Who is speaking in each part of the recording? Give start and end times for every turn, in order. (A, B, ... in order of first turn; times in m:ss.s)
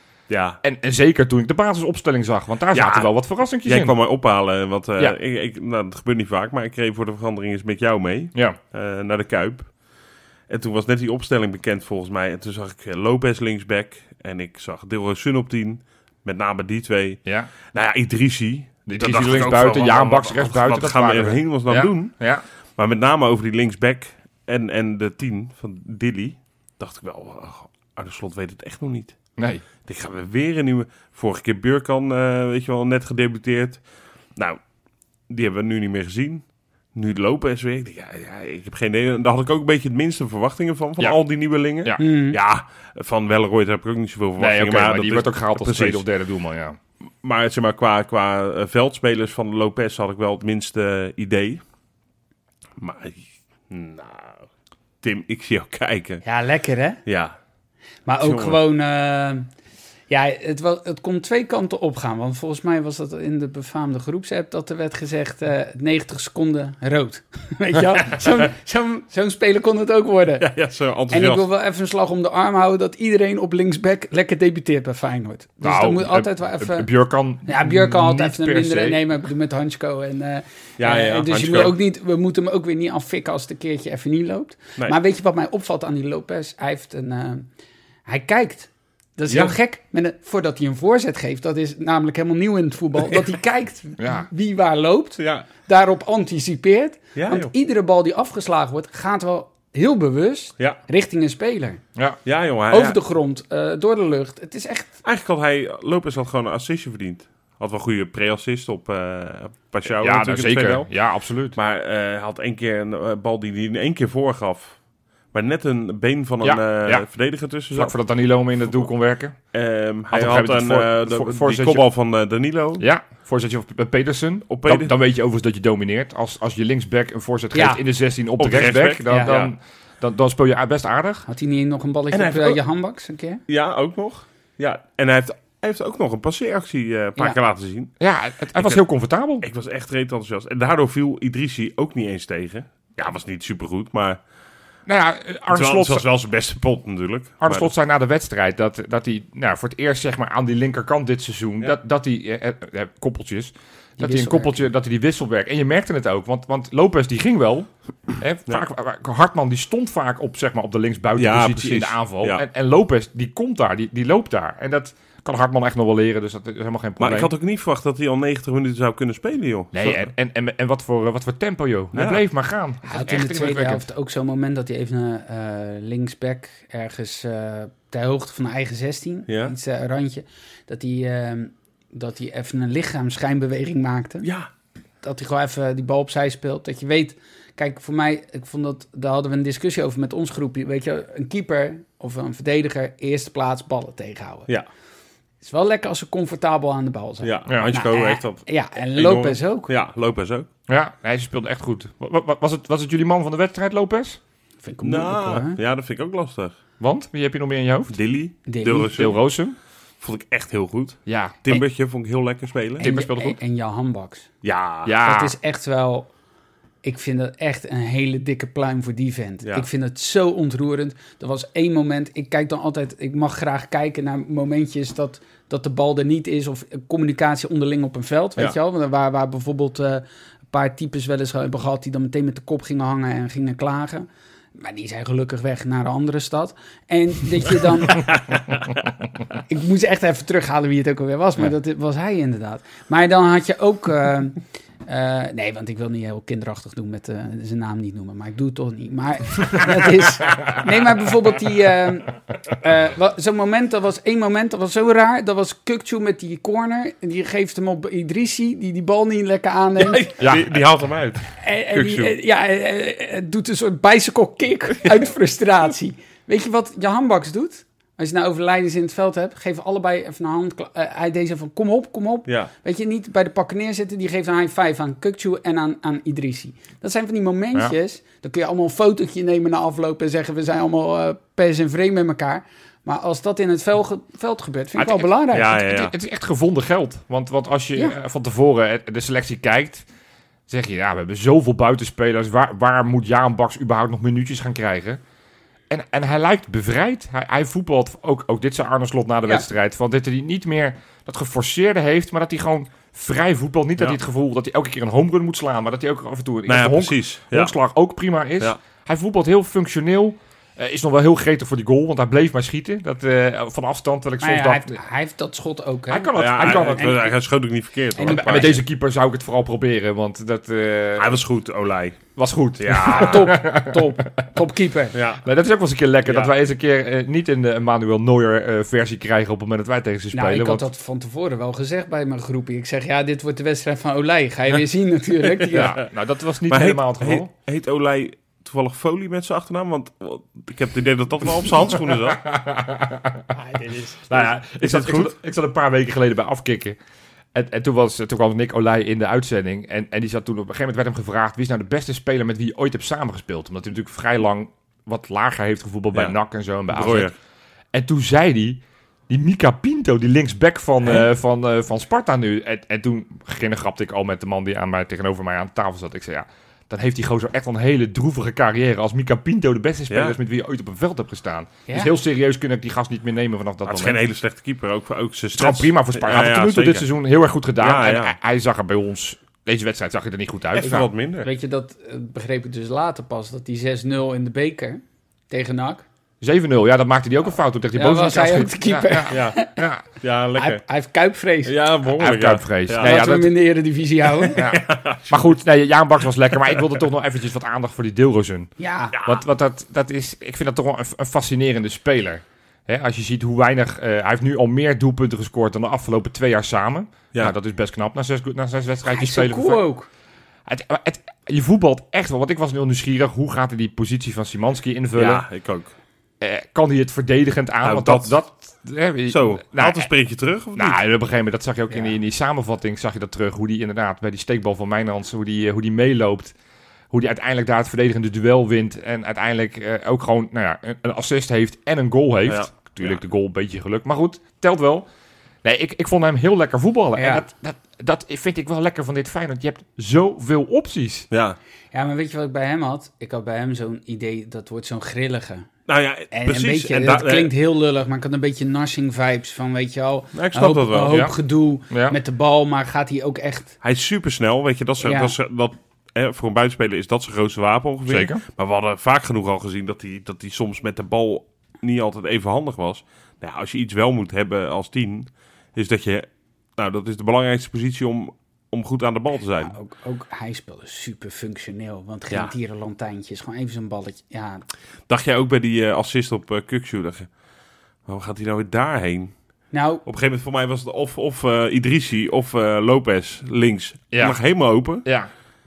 0:00.3-0:00.6 A
0:00.6-0:04.0 B
0:02.7-0:03.1 A
0:03.6-0:09.7 A
0:10.5-0:17.2 A
0:17.3-0:17.5 B
0:17.7-0:22.2 A
0:18.9-0:22.4 B
0:22.8-0:29.2 A
0:29.4-0:29.6 B
0:29.8-0:33.8 A
0:35.3-0:46.0 A
0:42.0-0:42.4 C
0:44.4-0:46.8 B
0:47.2-0:51.6 A
0:52.8-0:54.5 A
0:55.0-0:56.2 A
0:56.2-0:57.0 C
0:57.0-0:57.4 A
0:58.1-0:59.5 C
0:58.2-0:58.6 A
1:00.1-1:10.5 C
1:10.4-1:11.4 A
1:11.1-1:16.9 C
1:15.6-1:19.0 B
1:17.4-1:27.5 C
1:20.8-1:21.8 A
1:28.1-1:41.8 C
1:29.3-1:29.6 A
1:34.0-1:34.3 B
1:35.2-1:35.5 A
1:37.2-1:37.5 A
1:42.3-1:43.0 A
1:42.7-1:45.0 C
1:45.0-1:50.9 A
1:50.0-1:51.6 B
1:51.6-1:54.8 A
1:55.3-1:57.9 A
1:56.4-1:57.1 B
1:57.7-1:59.4 B
1:59.5-2:02.9 A
2:00.1-2:01.9 B
2:02.8-2:11.3 B
2:04.5-2:04.9 A
2:07.5-2:07.8 C
2:08.4-2:09.5 A
2:09.1-2:09.3 C
2:11.3-2:13.4 C
2:12.1-2:12.6 A
2:13.5-2:17.9 A
2:18.0-2:19.5 B
2:18.6-2:18.8 A
2:19.4-2:24.2 A
2:24.9-2:26.0 B
2:25.5-2:27.7 A
2:27.4-2:47.3 B
2:34.0-2:34.6 C
2:41.2-2:42.4 A
2:47.0-2:50.0 A
2:49.7-2:53.9 B
2:51.9-2:52.2 A
2:52.9-3:04.3 C
2:59.3-2:59.6 A
3:04.2-3:04.5 A
3:05.0-3:14.5 C
3:15.4-3:19.7 C
3:17.2-3:20.5 A
3:20.7-3:24.2 B
3:24.6-3:25.6 C
3:24.8-3:26.6 A
3:26.8-3:28.0 B
3:27.9-3:29.2 A
3:28.5-3:29.0 C
3:28.9-3:29.6 B
3:30.0-3:32.9 A
3:31.1-3:31.4 B
3:32.8-3:34.3 C
3:32.8-3:33.4 B
3:34.4-3:35.0 A
3:34.8-3:35.4 B
3:35.0-3:36.1 C
3:36.8-3:58.1 C
3:59.5-4:20.1 C
4:19.8-4:22.1 A
4:20.2-4:20.5 B
4:21.4-4:45.6 C
4:44.8-4:49.9 B
4:45.3-4:45.9 A
4:50.5-4:55.0 B
4:55.7-5:14.8 B
5:06.5-5:07.6 A
5:14.2-5:17.2 C
5:15.9-5:16.9 B
5:16.1-5:18.6 A
5:18.0-5:18.6 C
5:18.1-5:21.2 B
5:21.0-5:22.0 A
5:22.2-5:24.2 B
5:22.6-5:23.3 A
5:22.9-5:25.0 C
5:24.9-5:25.2 A
5:25.2-5:30.7 B
5:26.1-5:26.3 A
5:30.1-5:35.8 C
5:35.4-5:35.8 A
5:35.5-5:37.3 B
5:36.5-5:42.2 A
5:41.8-5:43.3 B
5:43.3-5:44.0 C
5:44.1-5:46.8 B
5:44.6-5:45.1 A
5:47.3-5:57.1 B
5:56.7-5:57.2 A
5:57.7-6:14.0 B
6:09.9-6:10.2 A
6:13.6-6:16.9 A
6:15.4-6:20.9 B
6:17.6-6:18.1 A
6:20.6-6:21.3 A
6:21.2-6:25.8 C
6:26.2-6:29.8 B
6:27.8-6:29.5 C
6:29.1-6:29.4 A
6:30.0-6:30.6 A
6:30.4-6:31.5 C
6:31.5-6:33.0 A
6:31.9-6:33.3 B
6:32.8-6:34.4 C
6:34.2-6:35.4 A
6:34.4-6:38.5 B
6:38.6-6:39.0 C
6:39.0-6:49.6 B
6:48.9-6:49.9 C
6:50.5-6:55.3 B
6:55.0-6:55.7 A
6:56.2-6:59.9 B
6:57.6-6:58.2 A
6:59.1-7:00.8 A
7:00.6-7:06.4 B
7:06.9-7:14.9 B
7:12.3-7:13.0 A
7:15.4-7:21.1 B
7:17.0-7:17.3 C
7:21.1-7:21.4 A
7:21.7-7:25.5 C
7:25.7-7:27.3 A
7:26.1-7:33.6 C
7:30.1-7:31.0 A
7:31.7-7:32.0 B
7:33.6-7:49.5 A
7:34.8-7:35.1 C
7:37.9-7:38.2 B
7:49.4-7:54.4 C
7:54.9-7:57.1 A
7:57.9-7:59.1 A
7:59.5-7:59.8 C
7:59.8-8:04.9 A
8:03.9-8:04.2 B
8:04.8-8:05.1 B